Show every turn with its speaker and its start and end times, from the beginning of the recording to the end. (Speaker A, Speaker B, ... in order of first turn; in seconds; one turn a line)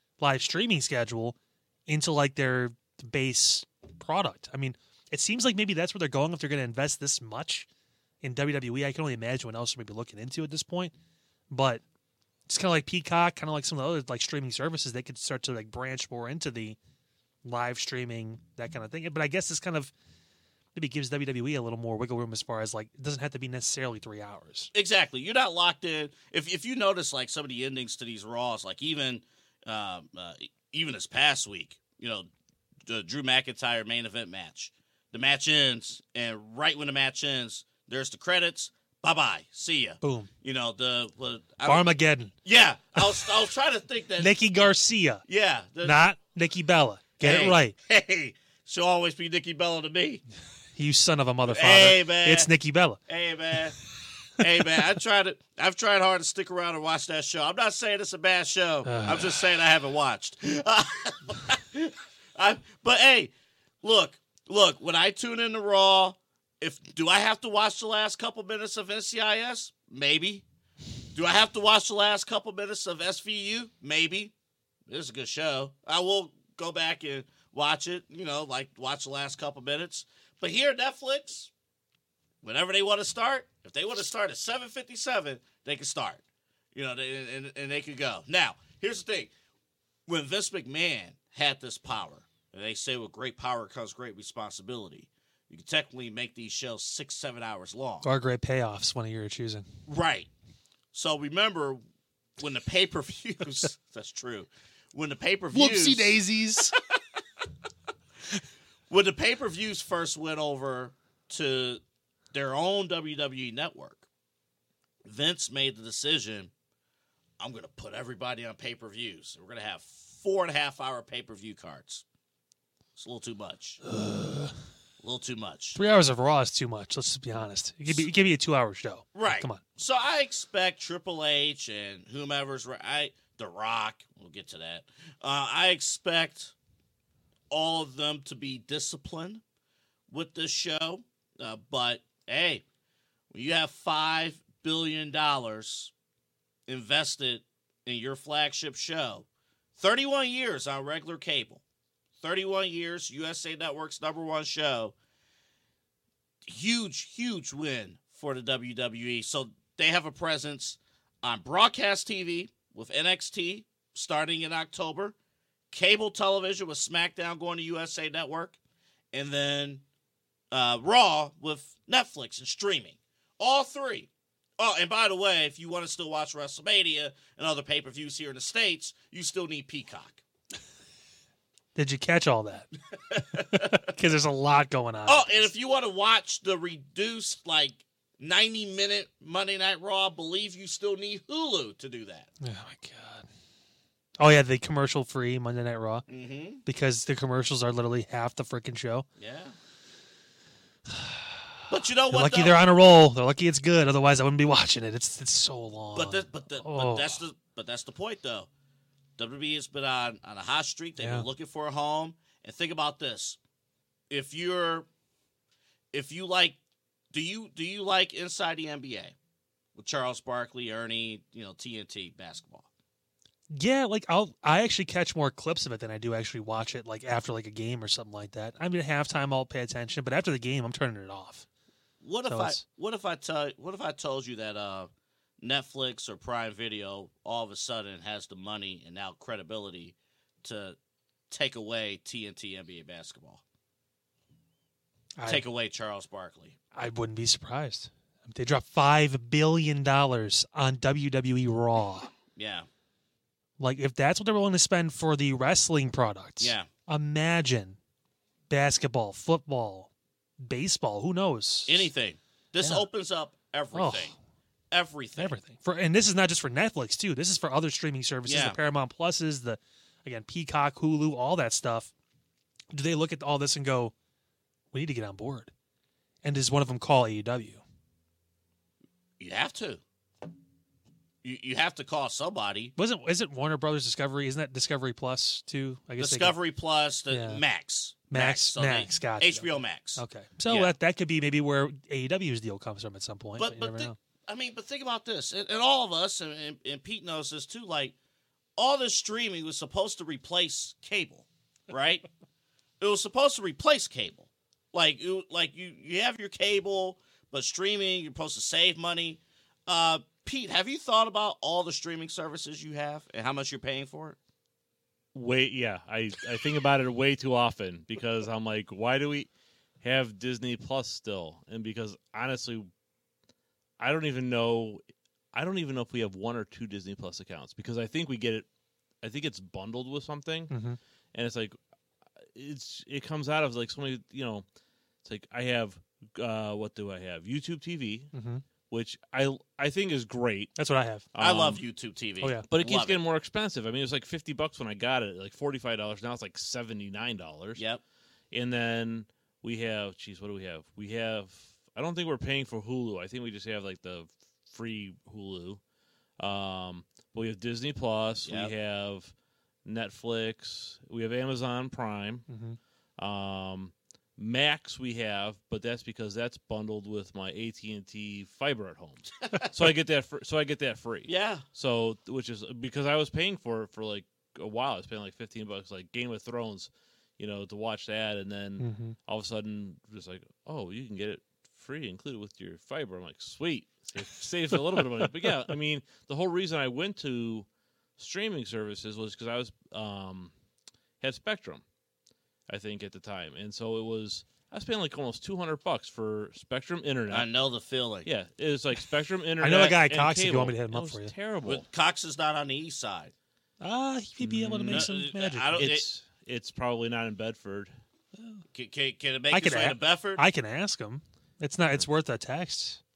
Speaker A: 0.2-1.4
Speaker A: 1.9-7.7
Speaker A: 8.2-10.9
Speaker A: 11.5-11.8
Speaker A: 12.5-16.8
Speaker A: 17.4-19.9
Speaker A: 20.8-24.7
Speaker B: 24.7-32.3
Speaker B: 32.9-41.9
Speaker A: 40.0-40.3
Speaker A: 41.6-42.3
Speaker B: 42.4-44.4
Speaker A: 44.2-45.2
Speaker B: 45.3-46.0
Speaker A: 45.8-47.8
Speaker B: 47.2-50.2
Speaker A: 50.8-53.0
Speaker B: 51.5-52.5
Speaker B: 53.1-53.8
Speaker B: 54.4-70.5
Speaker A: 58.9-59.5
Speaker B: 71.1-74.3
Speaker B: 74.9-81.5
Speaker B: 82.4-86.2
Speaker B: 86.7-89.3
Speaker B: 90.1-98.1
Speaker A: 98.0-99.7
Speaker B: 99.9-100.3
Speaker B: 100.9-101.8
Speaker B: 102.4-106.2
Speaker A: 105.5-106.7
Speaker B: 108.9-114.0
Speaker B: 115.0-116.5
Speaker B: 117.4-122.0
Speaker B: 123.0-123.8
Speaker A: 123.8-124.5
Speaker B: 125.0-125.8
Speaker A: 125.8-129.6
Speaker B: 129.2-136.5
Speaker B: 137.5-139.4
Speaker B: 140.1-142.6
Speaker B: 143.3-145.9
Speaker B: 146.7-151.6
Speaker B: 152.2-154.9
Speaker B: 156.5-165.2
Speaker B: 165.7-168.6
Speaker B: 169.1-169.8
Speaker B: 170.5-180.2
Speaker A: 181.8-182.7
Speaker B: 182.9-183.9
Speaker A: 183.3-185.5
Speaker B: 185.1-192.3
Speaker A: 192.4-193.3
Speaker A: 194.2-196.1
Speaker B: 196.1-196.6
Speaker A: 196.7-199.1
Speaker B: 199.2-199.6
Speaker A: 200.9-201.4
Speaker B: 201.7-202.6
Speaker A: 202.1-207.2
Speaker B: 205.9-208.5
Speaker B: 209.2-213.4
Speaker A: 211.0-211.3
Speaker B: 214.1-214.9
Speaker B: 215.9-216.6
Speaker B: 217.1-219.1
Speaker B: 219.8-222.7
Speaker A: 223.5-231.5
Speaker B: 232.0-240.8
Speaker A: 232.3-232.6
Speaker B: 241.3-243.4
Speaker A: 245.2-245.4
Speaker B: 245.3-246.6
Speaker A: 246.7-252.1
Speaker B: 252.3-252.7
Speaker A: 253.6-257.8
Speaker B: 256.4-256.7
Speaker A: 258.5-261.9
Speaker B: 261.7-264.1
Speaker A: 262.6-262.9
Speaker A: 263.7-264.2
Speaker B: 264.7-265.4
Speaker A: 265.2-271.9
Speaker B: 268.3-268.6
Speaker A: 272.7-273.9
Speaker A: 274.7-275.5
Speaker A: 276.2-277.6
Speaker B: 279.2-279.8
Speaker B: 281.2-282.7
Speaker A: 282.8-286.4
Speaker B: 286.0-290.7
Speaker A: 287.1-287.4
Speaker A: 288.1-294.0
Speaker B: 293.4-297.9
Speaker B: 298.6-302.1
Speaker B: 302.8-314.2
Speaker C: 315.1-322.7
Speaker C: 323.8-324.8
Speaker C: 325.3-328.5
Speaker C: 329.0-330.5
Speaker A: 330.5-330.8
Speaker C: 331.1-331.6
Speaker C: 332.3-334.4
Speaker C: 335.0-338.1
Speaker A: 338.1-338.4
Speaker C: 338.7-340.6
Speaker A: 340.6-341.1
Speaker C: 341.1-341.6
Speaker B: 341.2-343.0
Speaker C: 342.5-347.6
Speaker B: 347.6-347.8
Speaker C: 348.3-355.6
Speaker C: 356.2-359.1
Speaker B: 358.2-358.5
Speaker C: 359.6-362.3
Speaker A: 362.3-362.6
Speaker C: 363.0-387.5
Speaker B: 371.1-371.4
Speaker A: 378.6-379.0
Speaker C: 388.0-390.3
Speaker C: 391.0-391.6
Speaker C: 392.5-397.3
Speaker B: 397.1-398.1
Speaker C: 398.1-401.6
Speaker A: 399.4-401.1
Speaker B: 401.4-403.1
Speaker A: 403.6-405.6
Speaker C: 404.2-404.9
Speaker B: 404.7-405.9
Speaker C: 405.6-407.7
Speaker B: 408.5-410.2
Speaker A: 409.3-412.8